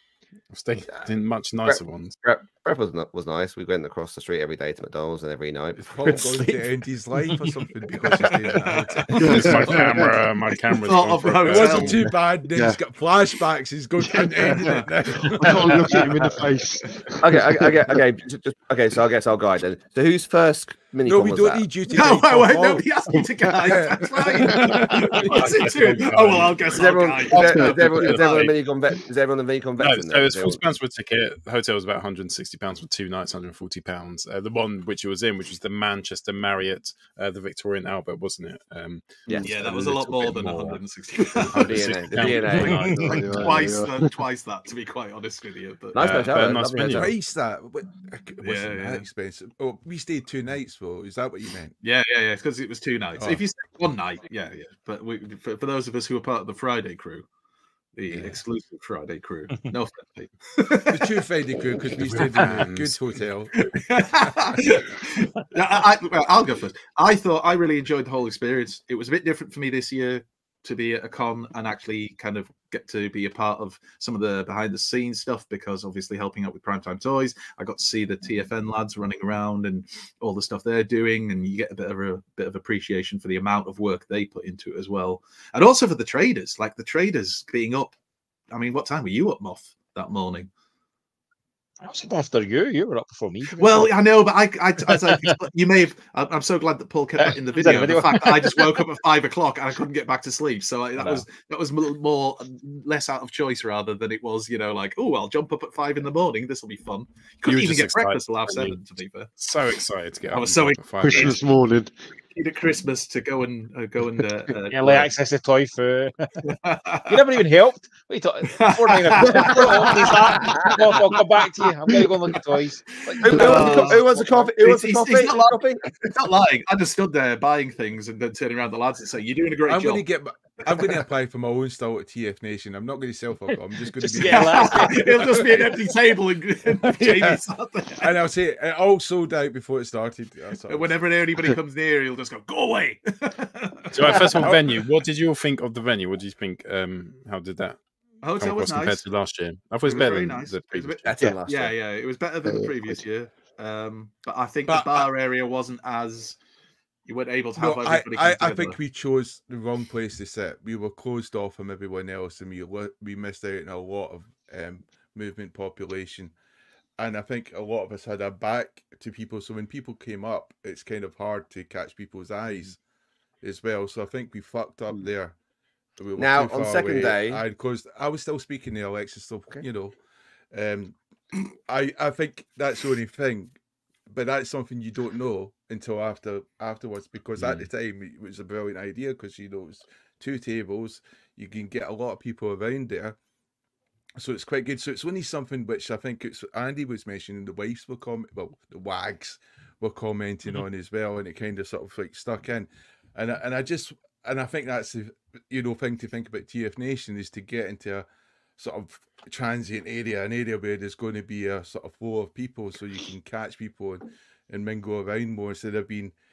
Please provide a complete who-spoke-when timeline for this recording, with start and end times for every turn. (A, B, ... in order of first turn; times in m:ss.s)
0:00.5-0:02.2 A
0:01.6-0:06.6 B
0:05.8-0:10.0 C
0:08.2-0:09.8 D
0:09.2-0:12.0 A
0:09.2-0:10.1 E
0:10.8-0:12.0 D
0:11.4-0:16.1 C
0:12.5-0:12.8 E
0:14.1-0:14.7 E
0:14.5-0:14.8 D
0:15.4-0:17.0 E
0:17.2-0:21.7 B
0:21.0-0:22.9 C
0:21.9-0:28.5 D
0:23.5-0:25.7 C
0:25.2-0:28.5 A
0:26.7-0:30.6 B
0:27.5-0:27.9 E
0:29.8-0:40.8 A
0:39.3-0:39.8 B
0:39.4-0:42.3 D
0:41.5-0:43.5 A
0:41.5-0:43.6 B
0:42.4-0:44.1 E
0:43.1-0:46.3 D
0:45.9-0:47.1 B
0:46.0-0:47.1 A
0:46.9-0:51.7 C
0:48.4-0:49.0 D
0:51.8-0:57.2 D
0:57.9-1:01.2 D
0:58.1-0:58.4 A
1:00.9-1:04.6 C
1:02.0-1:03.0 A
1:03.7-1:27.9 D
1:28.5-1:30.5 D
1:31.8-1:34.0 F
1:33.6-1:49.3 D
1:34.8-1:35.4 F
1:37.2-1:38.7 F
1:41.0-1:41.2 F
1:47.4-1:48.8 A
1:49.4-1:51.4 A
1:50.3-1:51.4 D
1:51.0-1:51.9 E
1:52.3-1:55.1 D
1:54.7-1:56.3 F
1:56.4-1:57.4 D
1:57.1-2:04.2 F
1:58.5-2:01.0 D
1:59.4-2:00.6 B
2:03.1-2:05.6 D
2:03.2-2:06.1 B
2:06.1-2:10.0 D
2:09.7-2:15.8 C
2:10.6-2:11.0 D
2:14.0-2:15.4 F
2:14.2-2:18.1 D
2:16.8-2:17.4 C
2:18.0-2:21.1 C
2:20.7-2:24.5 D
2:23.9-2:27.8 A
2:24.0-2:24.4 B
2:28.2-2:29.0 D
2:28.4-2:31.1 A
2:29.8-2:36.4 D
2:31.0-2:31.7 B
2:32.4-2:33.0 E
2:34.7-2:35.1 C
2:37.1-2:38.8 D
2:37.6-2:46.3 C
2:47.0-2:52.8 C
2:53.4-2:55.4 C
2:56.0-3:00.0 C
2:56.2-2:57.4 B
3:00.5-3:01.0 C
3:01.7-3:03.5 C
3:04.1-3:13.2 C
3:14.2-3:28.0 C
3:28.6-3:36.1 C